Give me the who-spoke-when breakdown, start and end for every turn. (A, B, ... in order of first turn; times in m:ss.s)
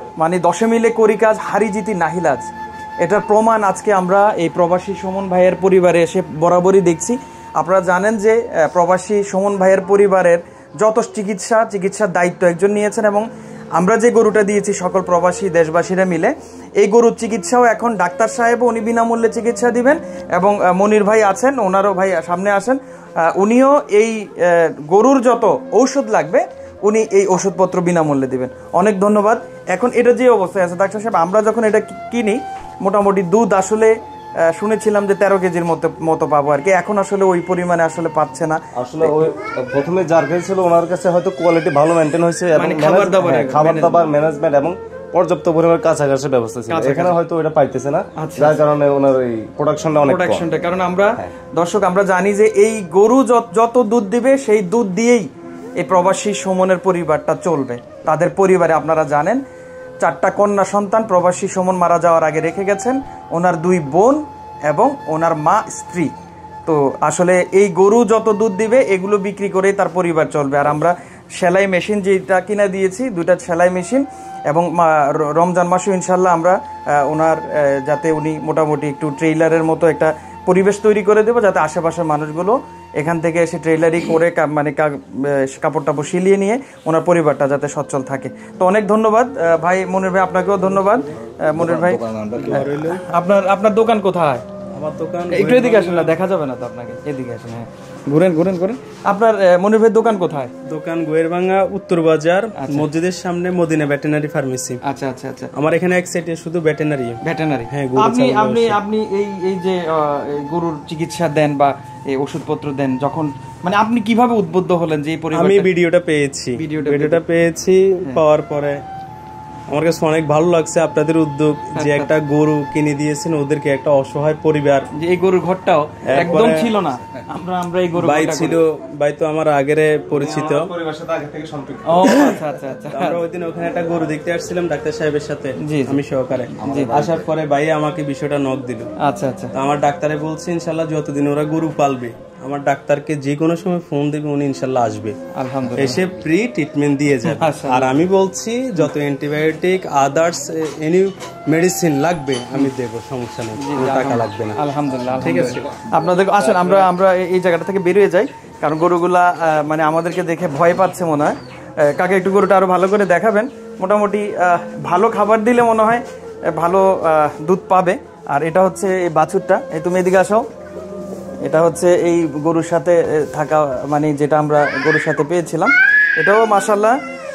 0:00.2-0:33.9 A
0:34.5-0:39.2 A
0:38.8-0:50.4 B
0:42.5-0:44.0 A
0:46.7-0:47.2 A
0:48.2-0:48.6 A
0:50.0-0:59.4 A
1:00.0-1:06.1 A
1:06.6-1:34.4 A
1:31.9-1:32.4 B
1:32.3-1:33.0 C
1:34.7-1:36.1 C
1:35.3-1:40.5 A
1:40.6-1:44.8 C
1:42.6-1:42.9 A
1:44.8-1:45.5 A
1:45.5-1:48.8 C
1:47.2-1:55.7 A
1:55.3-1:58.8 C
1:56.6-1:57.2 A
1:59.7-2:04.9 C
2:01.7-2:02.1 A
2:04.9-2:08.6 A
2:06.0-2:06.7 C
2:08.0-2:10.7 C
2:10.2-2:12.3 B
2:11.9-2:13.2 A
2:12.9-2:18.9 C
2:15.6-2:16.0 A
2:16.6-2:17.2 B
2:16.6-2:16.9 A
2:19.0-2:19.5 A
2:19.5-2:25.2 C
2:25.3-2:26.0 A
2:25.8-2:34.6 C
2:27.2-2:28.0 A
2:33.6-2:50.4 A
2:35.2-2:35.7 C
2:51.4-2:57.0 A